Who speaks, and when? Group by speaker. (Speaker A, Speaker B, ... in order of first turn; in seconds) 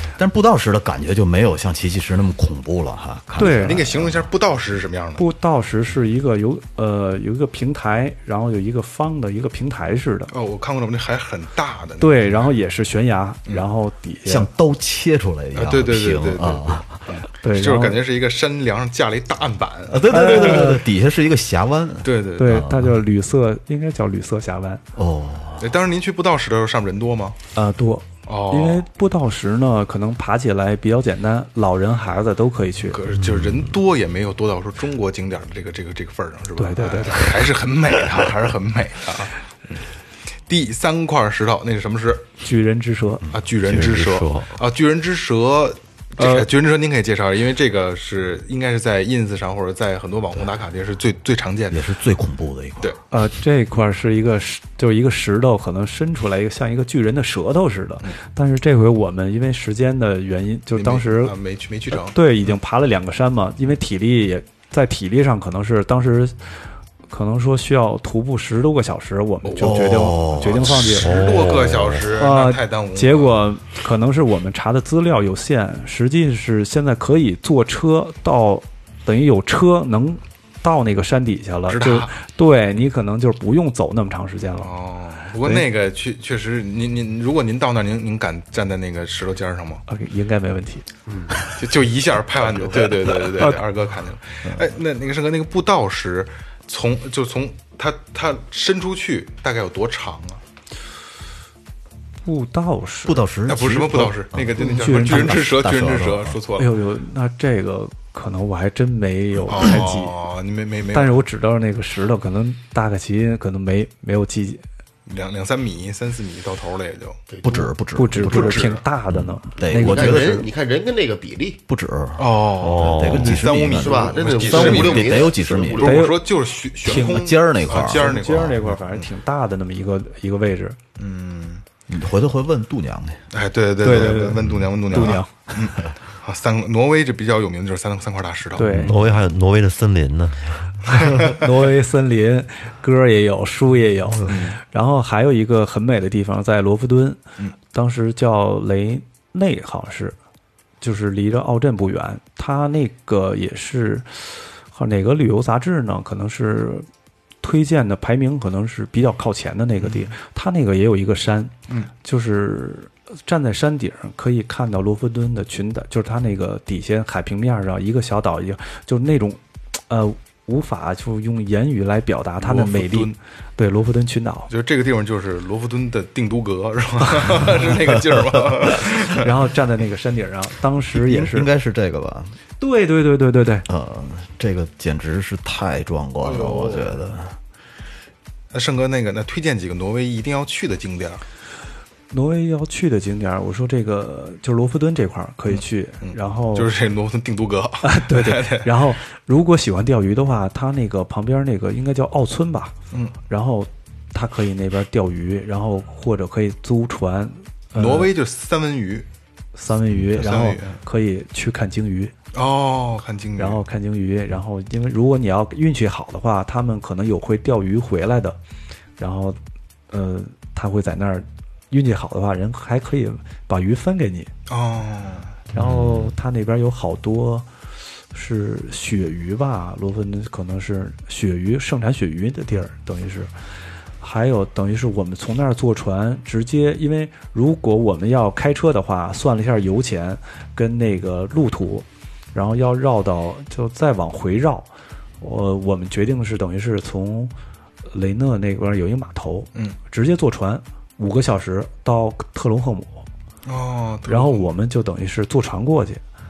Speaker A: 0.2-4.2, 14.3-17.0, 19.9-23.0, 25.0-25.7, 51.7-53.0, 69.6-70.7, 103.0-106.4, 117.4-120.5, 121.7-126.1, 126.9-128.3, 131.9-133.2, 180.9-182.3, 183.7-187.4
Speaker B: 3.4-3.9, 5.2-10.3, 12.0-14.5, 17.4-18.0, 20.1-20.8, 22.4-24.8, 27.6-33.0, 36.6-37.3, 42.4-43.3, 46.2-46.5, 53.1-61.4, 61.9-66.3, 67.1-71.3, 72.1-84.7, 85.4-85.7, 89.9-90.9, 102.2-103.2, 104.6-105.6, 106.6-110.2, 110.9-114.6, 118.0-120.5, 125.8-126.3, 126.8-127.2, 127.8-130.8, 133.8-135.3, 138.6-139.0, 140.9-147.2, 147.7-150.2, 150.8-156.9, 157.4-174.5, 179.2-181.5, 182.6-183.7, 192.1-196.7, 197.8-202.7, 203.3-208.1, 209.6-212.1, 213.4-218.4, 219.0-219.4, 219.9-224.3, 225.5-227.5, 228.1-233.3, 234.0-244.7, 245.2-247.3, 247.9-253.1, 254.1-256.0
Speaker C: 3.4-5.2, 10.3-12.5, 15.5-20.7, 22.0-22.6, 25.6-27.4, 28.3-28.9, 32.9-39.8, 40.5-42.3, 43.3-51.9, 60.8-62.2, 69.5-73.5, 81.7-82.1, 84.6-89.8, 91.5-100.4, 103.5-106.8, 109.5-111.2, 115.1-117.2, 118.2-118.8, 122.2-129.1, 131.0-131.6, 133.3-138.7, 144.3-144.6, 159.8-160.1, 172.4-173.1, 174.5-179.3, 186.2-187.0, 188.5-191.2, 196.0-198.8, 207.8-209.1, 210.0-210.8, 212.3-213.6, 224.5-225.4, 253.5-254.5
Speaker D: 43.7-44.5, 70.9-72.0, 122.6-123.4, 138.7-141.0
Speaker E: 91.1-91.3, 117.3-117.7, 119.7-121.6, 123.6-126.0